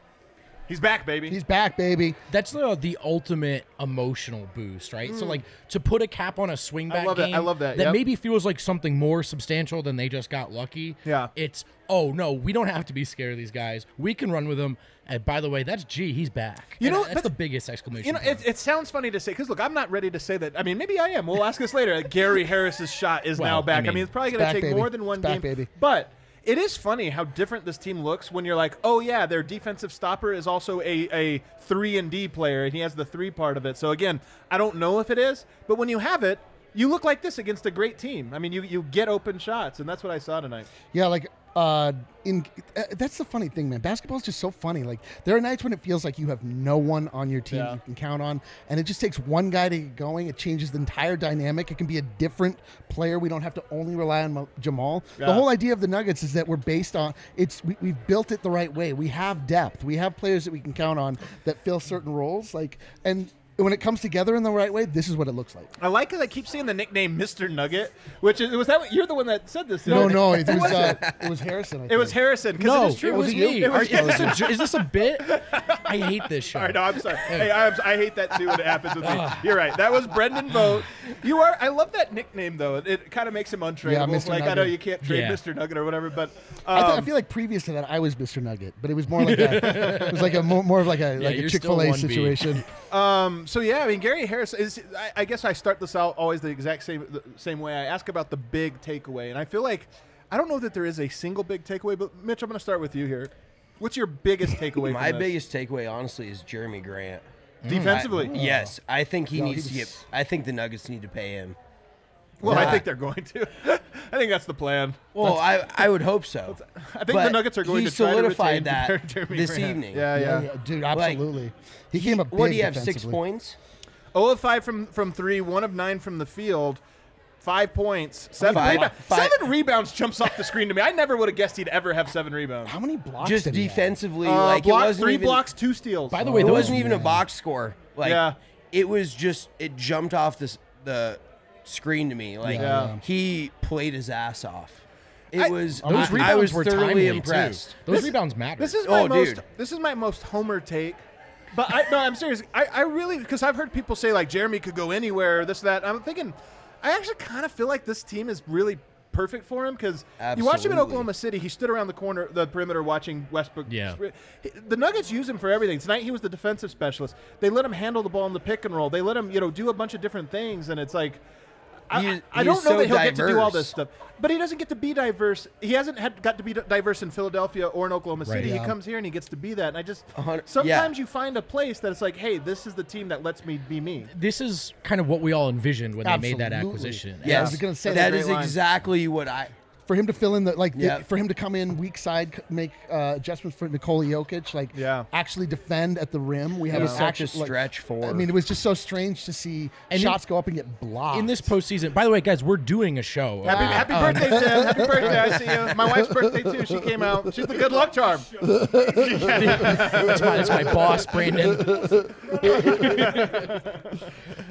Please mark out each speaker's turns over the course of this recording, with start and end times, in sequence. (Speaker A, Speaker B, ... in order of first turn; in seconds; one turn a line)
Speaker A: 0.7-1.4
Speaker B: 1.3-2.2
Speaker C: 2.3-18.4
Speaker A: 6.9-8.0
Speaker A: 11.1-11.3
Speaker A: 16.8-17.3
Speaker A: 18.0-40.7
Speaker C: 23.4-24.1
Speaker B: 24.2-25.7
Speaker B: 40.9-65.7
Speaker A: 47.5-47.8
Speaker A: 55.2-55.5
Speaker A: 65.8-71.1
Speaker B: 69.8-72.2
Speaker D: 70.4-71.2
Speaker A: 71.9-87.1
Speaker C: 72.6-77.6
Speaker B: 73.0-74.5
Speaker C: 79.0-79.4
Speaker B: 83.8-84.8
Speaker C: 85.0-85.4
Speaker B: 86.7-92.7
Speaker C: 89.2-92.7
Speaker A: 92.9-105.3
Speaker D: 104.8-111.6
Speaker C: 107.6-108.1
Speaker A: 107.7-108.4
Speaker B: 108.3-108.8
Speaker B: 109.3-110.0
Speaker B: 112.4-112.8
Speaker A: 112.4-115.1
Speaker D: 112.5-112.9
Speaker D: 115.1-116.6
Speaker A: 116.5-120.5
Speaker D: 117.1-120.1
Speaker B: 120.1-123.2
Speaker D: 120.9-121.2
Speaker D: 121.9-123.6
Speaker A: 124.1-126.8
Speaker A: 127.4-132.8
Speaker D: 128.4-129.5
Speaker B: 132.7-134.0
Speaker D: 133.2-135.5
Speaker A: 134.2-136.3
Speaker C: 136.1-136.9
Speaker B: 136.2-137.2
Speaker D: 136.4-147.8
Speaker A: 138.0-138.4
Speaker B: 142.4-143.0
Speaker A: 142.5-143.0
Speaker B: 145.7-146.5
Speaker C: 145.9-148.8
Speaker A: 147.9-171.2
Speaker D: 148.8-149.4
Speaker D: 160.2-161.1
Speaker C: 163.7-164.0
Speaker A: 171.9-184.1
Speaker D: 171.9-173.7
Speaker C: 178.2-178.5
Speaker B: 178.4-178.8
Speaker D: 180.1-180.9
Speaker C: 184.1-187.5
Speaker B: 186.0-188.2
Speaker D: 187.2-189.5
Speaker A: 187.3-188.6
Speaker B: 189.9-201.5
Speaker D: 190.7-191.1
Speaker A: 194.7-195.1
Speaker D: 196.7-198.3
Speaker A: 196.7-197.0
Speaker C: 199.9-200.2
Speaker C: 201.1-204.9
Speaker A: 203.4-208.5
Speaker B: 203.4-206.8
Speaker B: 208.4-210.8
Speaker C: 209.0-213.6
Speaker A: 209.2-210.8
Speaker B: 211.3-212.8
Speaker A: 212.4-214.0